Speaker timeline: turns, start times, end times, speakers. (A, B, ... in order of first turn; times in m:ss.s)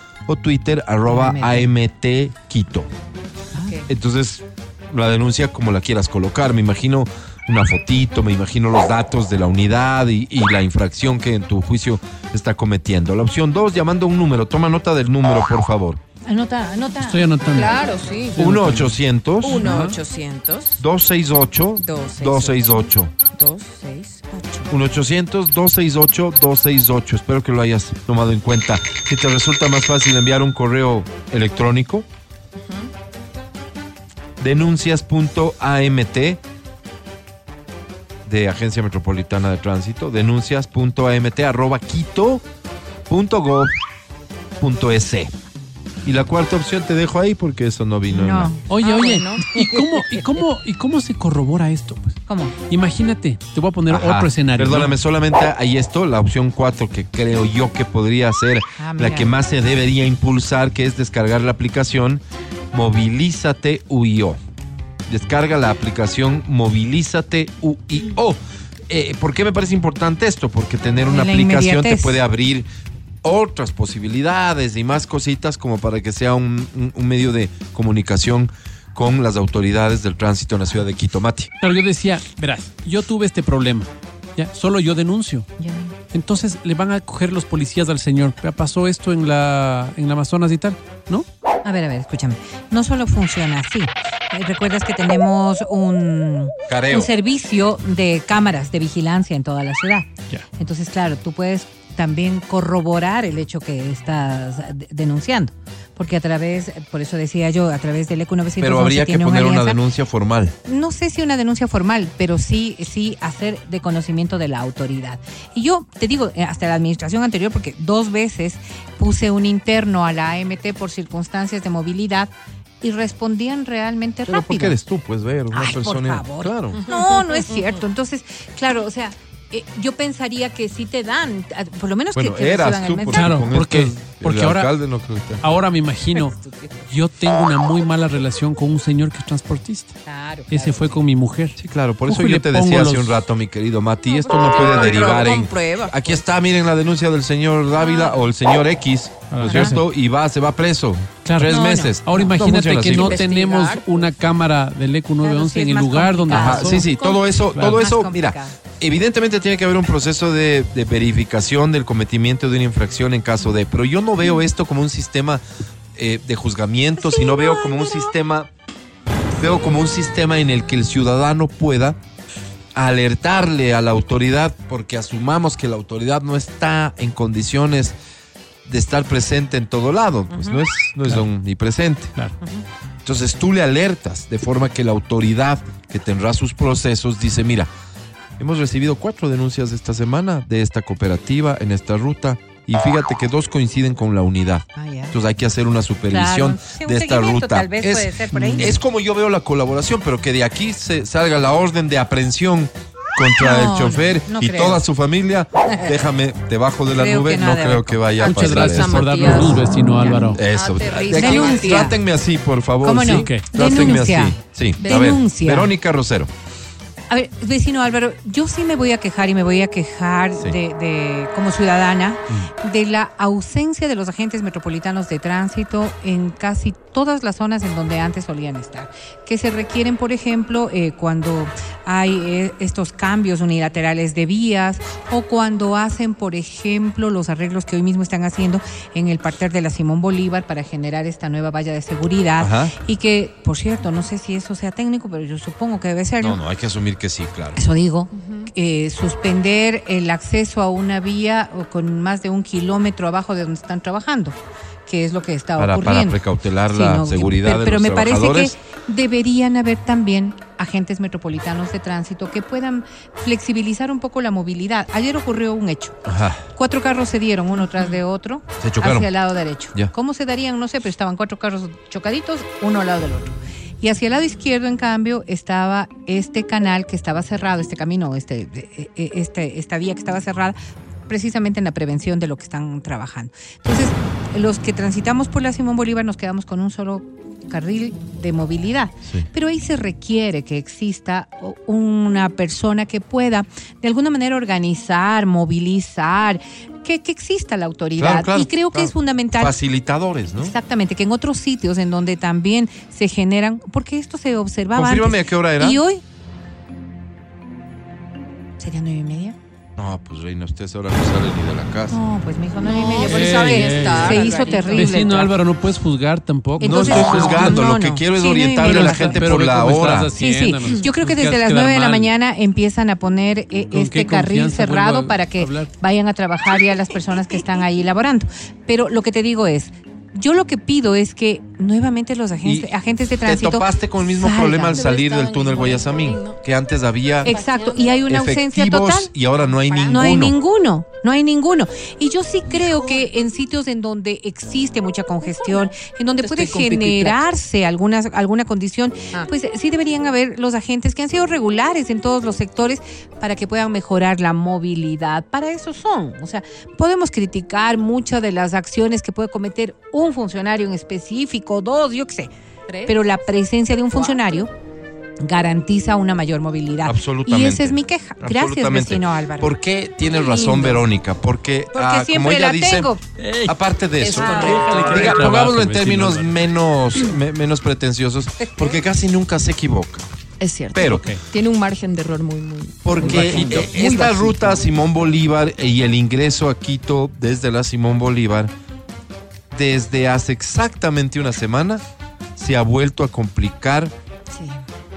0:00.3-0:02.9 A
0:01.0-0:01.7 B
0:03.6-0:03.9 B
0:03.9-0:16.0 A
0:16.3-0:17.3 B
0:17.0-0:17.8 C
0:17.5-0:18.4 D
0:18.3-0:20.0 C
0:18.4-0:19.7 A
0:19.4-0:20.8 D
0:20.8-0:23.1 A
0:21.8-0:24.7 D
0:24.7-0:32.1 A
0:32.6-0:32.9 D
0:34.4-0:36.4 A
0:38.2-0:42.4 A
0:43.1-0:43.7 A
0:44.6-0:45.3 A
0:46.0-0:48.5 A
0:48.1-0:48.7 B
0:48.7-0:52.2 C
0:48.8-0:49.5 D
0:49.5-0:49.8 B
0:52.3-0:52.6 B
0:52.7-0:54.9 C
0:53.9-1:04.4 A
0:58.8-0:59.4 B
1:05.1-1:08.4 A
1:08.9-1:12.6 A
1:11.0-1:12.2 B
1:13.2-1:21.5 A
1:21.6-1:25.5 C
1:25.6-1:26.0 B
1:26.1-1:31.2 C
1:31.6-1:49.8 B
1:36.7-1:37.1 A
1:48.6-1:50.6 A
1:50.6-2:02.3 B
2:02.8-2:04.8 B
2:04.3-2:06.9 A
2:05.5-2:13.5 B
2:06.8-2:07.8 D
2:12.1-2:15.4 A
2:13.1-2:14.7 C
2:15.4-2:16.4 C
2:16.1-2:16.9 B
2:16.9-2:19.9 C
2:20.0-2:21.0 B
2:20.5-2:23.2 C
2:21.6-2:33.2 A
2:24.1-2:25.9 D
2:24.5-2:25.0 B
2:26.0-2:26.3 B
2:27.8-2:28.2 B
2:29.3-2:29.8 C
2:29.5-2:29.8 B
2:31.2-2:36.9 C
2:32.9-2:33.9 D
2:35.2-2:38.6 B
2:36.3-2:45.4 A
2:37.4-2:37.9 C
2:46.0-2:48.5 A
2:47.0-2:48.1 B
2:49.4-2:52.0 A
2:52.8-2:58.0 A
2:58.6-3:02.1 A
3:00.3-3:00.6 B
3:03.0-3:07.7 A
3:08.4-3:29.5 A
3:14.8-3:15.2 B
3:16.1-3:18.8 B
3:18.4-3:18.7 C
3:23.4-3:24.8 B
3:25.6-3:26.0 B
3:26.9-3:28.2 B
3:28.2-3:30.4 C
3:28.2-3:29.7 D
3:30.0-3:30.4 B
3:30.3-3:36.3 A
3:30.4-3:31.9 D
3:31.1-3:32.0 B
3:32.8-3:35.7 B
3:33.1-3:34.0 C
3:34.8-3:35.2 D
3:37.1-4:06.4 B
4:02.4-4:02.8 A
4:06.2-4:07.6 A
4:07.5-4:26.0 B
4:08.2-4:08.5 D
4:15.6-4:18.6 A
4:26.0-4:26.5 A
4:26.5-4:40.6 B
4:27.7-4:28.0 D
4:28.6-4:29.1 A
4:41.1-4:59.6 B
4:58.0-5:00.5 A
5:00.4-5:06.0 B
5:04.7-5:05.8 A
5:08.6-5:09.4 B
5:09.8-5:12.0 A
5:11.9-5:15.4 B
5:12.6-5:15.0 D
5:13.0-5:17.6 C
5:16.6-5:19.3 B
5:16.6-5:20.1 A
5:18.6-5:22.1 C
5:20.1-5:34.9 B
5:23.7-5:25.7 C
5:32.4-5:32.7 A
5:33.2-5:37.3 A
5:34.7-5:36.4 D
5:37.2-5:38.1 D
5:37.2-5:39.1 B
5:38.1-5:40.4 A
5:39.4-5:40.1 D
5:39.9-6:02.3 B
5:42.5-5:43.1 D
5:45.2-5:47.2 D
6:02.7-6:03.0 D
6:02.9-6:04.5 B
6:03.9-6:04.4 D
6:05.2-6:09.6 B
6:06.8-6:13.0 A
6:10.1-6:10.9 B
6:11.7-6:13.0 B
6:13.2-6:16.4 C
6:13.5-6:20.1 A
6:14.0-6:15.2 D
6:14.1-6:14.6 B
6:18.4-6:18.9 B
6:20.4-6:24.6 D
6:20.7-6:21.1 A
6:20.9-6:21.2 C
6:22.8-6:28.5 A
6:23.0-6:23.8 C
6:29.5-6:31.8 A
6:32.4-6:33.9 A